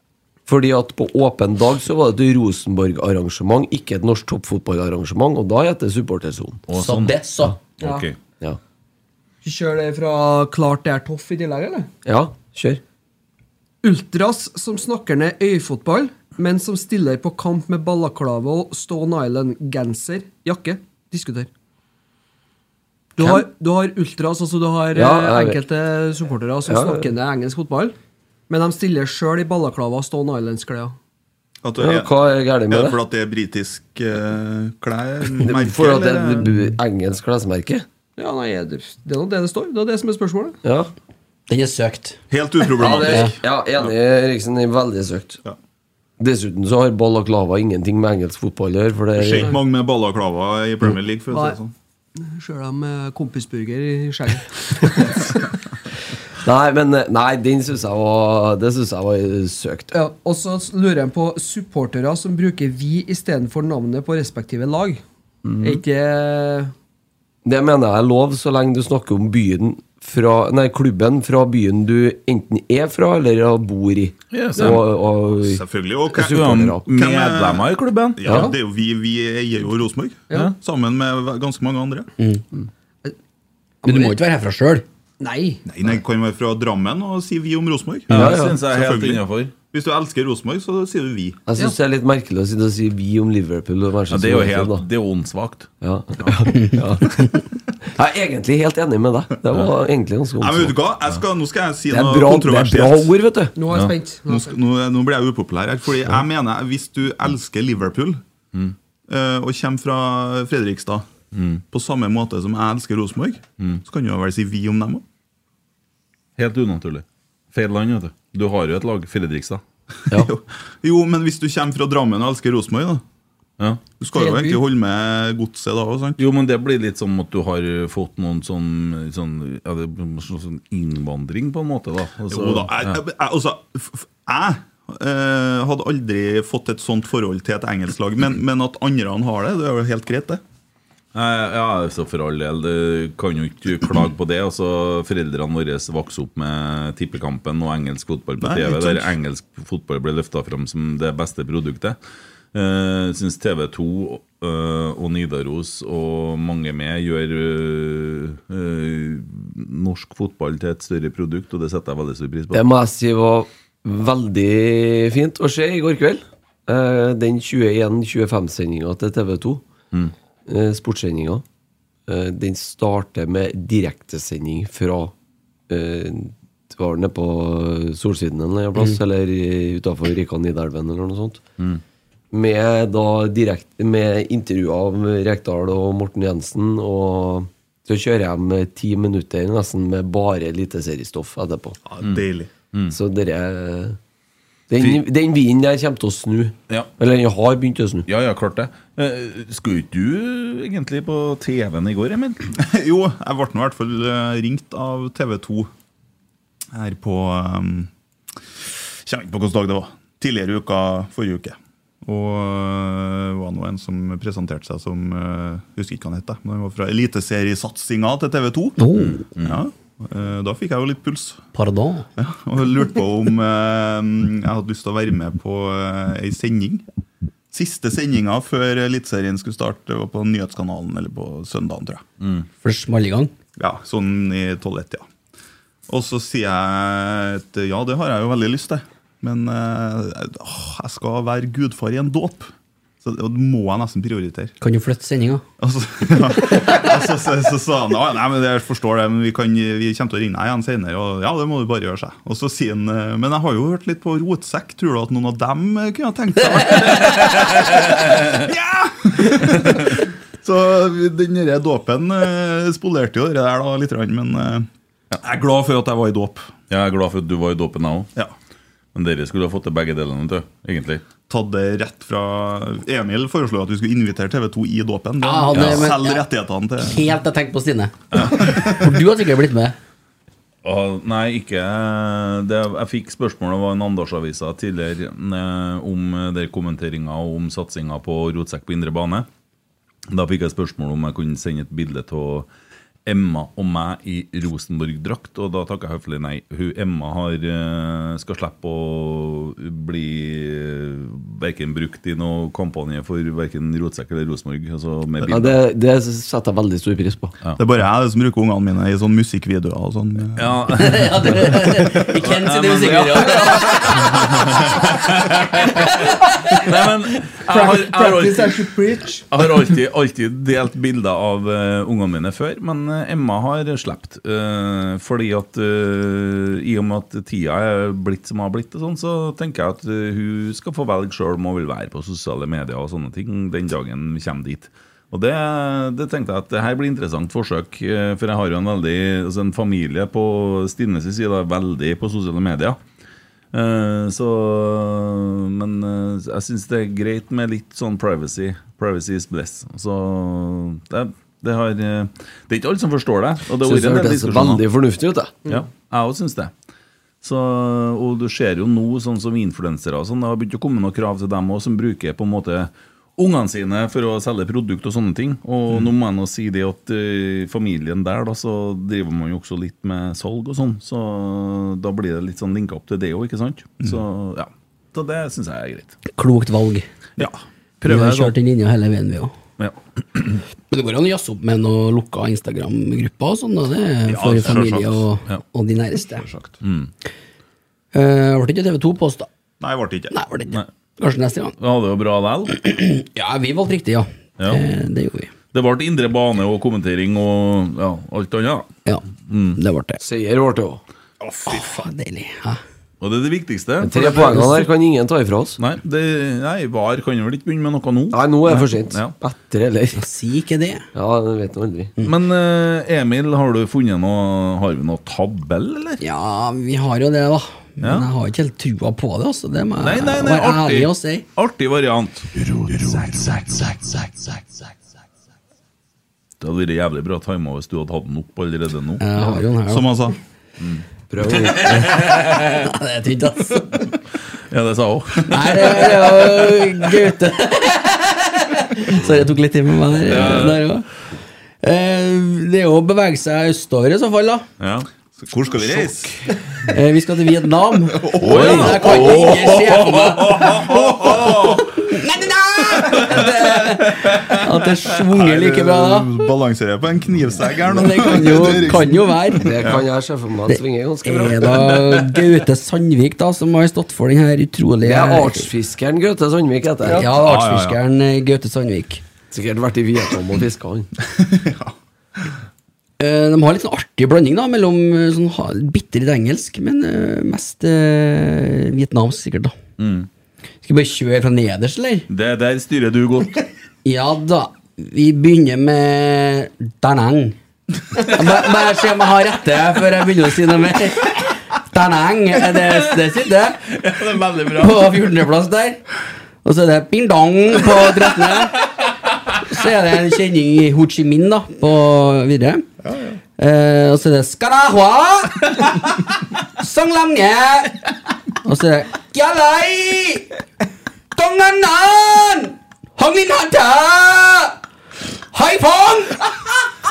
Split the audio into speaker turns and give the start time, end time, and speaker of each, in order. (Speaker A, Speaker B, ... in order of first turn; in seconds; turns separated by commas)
Speaker A: 0.5-6.6, Speaker B: 6.7-7.2, Speaker C: 6.8-7.6, Speaker B: 7.8-8.2, Speaker D: 7.8-8.1, Speaker D: 9.4-11.9, Speaker A: 12.1-12.8, Speaker D: 13.8-21.5, Speaker D: 23.2-27.9, Speaker A: 23.2-23.4, Speaker A: 24.9-25.6, Speaker A: 26.7-27.1, Speaker D: 28.5-30.9, Speaker E: 31.6-32.2, Speaker A: 31.8-33.0, Speaker E: 32.7-36.6, Speaker A: 35.4-37.9, Speaker D: 38.2-40.6, Speaker A: 40.6-40.9, Speaker C: 41.5-42.2, Speaker E: 42.3-43.9, Speaker A: 42.8-45.4, Speaker C: 43.0-43.3, Speaker A: 46.2-49.6, Speaker E: 49.2-51.7, Speaker D: 51.3-51.6, Speaker D: 52.2-55.3, Speaker A: 56.4-59.9, Speaker D: 59.9-65.0, Speaker B: 65.5-65.8, Speaker D: 65.6-66.7, Speaker A: 67.5-76.8, Speaker B: 74.3-74.8, Speaker E: 75.4-82.1, Speaker B: 76.2-78.5, Speaker D: 78.2-78.5, Speaker A: 78.3-78.5, Speaker D: 83.8-84.1, Speaker C: 83.8-84.8, Speaker D: 85.2-85.6, Speaker E: 85.7-91.4, Speaker B: 88.1-89.5, Speaker A: 88.1-88.6, Speaker A: 91.5-94.8, Speaker B: 94.1-95.7, Speaker A: 95.8-100.8, Speaker B: 96.2-96.7, Speaker E: 100.4-103.1, Speaker A: 101.9-103.5, Speaker D: 103.6-104.6, Speaker E: 104.3-108.2, Speaker E: 109.1-111.1, Speaker B: 111.3-111.6, Speaker E: 111.7-115.0, Speaker B: 116.4-119.6, Speaker E: 120.1-123.0, Speaker E: 124.0-126.2, Speaker D: 124.1-124.6, Speaker B: 126.2-133.0, Speaker E: 132.3-140.4, Speaker B: 141.1-152.0, Speaker E: 148.4-149.2, Speaker B: 152.5-162.6, Speaker A: 162.5-169.7, Speaker A: 170.5-171.4, Speaker A: 172.1-175.1, Speaker A: 175.7-181.4, Speaker A: 182.3-191.8, Speaker E: 191.9-192.5, Speaker B: 192.0-192.9, Speaker A: 192.9-194.0, Speaker A: 194.7-198.1, Speaker B: 198.1-202.4, Speaker E: 202.6-205.7, Speaker E: 206.7-207.9, Speaker E: 208.6-218.8, Speaker C: 218.8-219.2, Speaker B: 219.0-219.6, Speaker E: 219.4-221.4, Speaker C: 221.5-222.1, Speaker E: 222.2-226.8, Speaker E: 227.5-232.0, Speaker B: 232.2-232.5, Speaker C: 232.6-233.3, Speaker E: 233.6-235.1, Speaker E: 235.9-242.5, Speaker E: 243.0-244.5, Speaker C: 244.6-245.4, Speaker E: 245.6-264.7, Speaker B: 257.0-258.2, Speaker E: 265.2-266.5, Speaker B: 266.7-268.1, Speaker B: 268.9-271.0, Speaker E: 271.3-277.1, Speaker C: 275.2-276.2, Speaker B: 275.5-275.9, Speaker C: 276.8-279.8, Speaker B: 278.1-278.6, Speaker E: 278.2-278.8, Speaker B: 280.6-289.3, Speaker B: 290.1-292.5, Speaker B: 293.1-305.6, Speaker A: 305.2-307.4, Speaker E: 307.6-311.0, Speaker B: 310.4-318.6, Speaker C: 310.8-314.7, Speaker C: 315.8-316.0, Speaker D: 317.5-319.3, Speaker B: 319.3-342.8, Speaker B: 343.5-354.6, Speaker A: 353.6-355.4, Speaker B: 355.5-356.5, Speaker B: 357.2-376.0, Speaker C: 376.1-376.9, Speaker B: 377.8-378.3, Speaker C: 377.9-379.3, Speaker B: 379.6-380.4, Speaker C: 380.7-386.3, Speaker E: 384.1-385.1, Speaker E: 386.2-386.6, Speaker B: 386.6-386.9, Speaker C: 387.9-389.3, Speaker E: 389.6-390.1, Speaker C: 390.1-391.6, Speaker B: 391.6-392.6, Speaker C: 392.6-395.3, Speaker B: 395.5-398.7, Speaker B: 399.3-399.6, Speaker C: 399.6-400.0, Speaker A: 400.0-400.8, Speaker E: 401.2-401.8, Speaker C: 401.5-402.6, Speaker B: 403.0-404.5, Speaker A: 403.8-405.6, Speaker C: 404.2-404.6, Speaker B: 405.6-409.1, Speaker A: 408.1-410.0, Speaker C: 410.0-410.8, Speaker A: 410.9-411.9, Speaker B: 412.0-416.0, Speaker C: 416.0-421.2, Speaker B: 417.8-418.1, Speaker B: 419.8-424.1, Speaker B: 426.4-429.0, Speaker C: 429.0-429.9, Speaker E: 429.7-430.2, Speaker B: 430.6-432.7, Speaker A: 431.1-432.2, Speaker C: 432.6-433.8, Speaker B: 434.5-436.6, Speaker C: 435.3-440.9, Speaker B: 440.1-440.6, Speaker C: 441.6-444.4, Speaker B: 444.6-444.9, Speaker E: 445.2-446.1, Speaker C: 446.7-450.5, Speaker E: 448.0-449.4, Speaker B: 448.2-451.7, Speaker E: 450.4-451.6, Speaker C: 451.8-456.1, Speaker B: 452.9-453.3, Speaker E: 455.1-459.8, Speaker C: 457.7-459.6, Speaker A: 459.4-461.8, Speaker C: 460.5-465.5, Speaker A: 464.8-467.1, Speaker C: 466.8-469.0, Speaker E: 467.2-467.7, Speaker B: 467.3-467.6, Speaker A: 469.3-470.9, Speaker E: 471.1-471.7, Speaker C: 473.0-479.5, Speaker B: 479.8-480.1, Speaker C: 480.6-482.1, Speaker B: 482.1-483.4, Speaker C: 483.9-487.4, Speaker C: 487.9-493.6, Speaker B: 493.7-495.0, Speaker C: 494.6-495.8, Speaker C: 496.4-498.6, Speaker C: 499.4-502.7, Speaker C: 503.4-505.9, Speaker C: 506.6-507.9, Speaker C: 508.4-510.3, Speaker C: 511.1-514.6, Speaker C: 515.3-516.3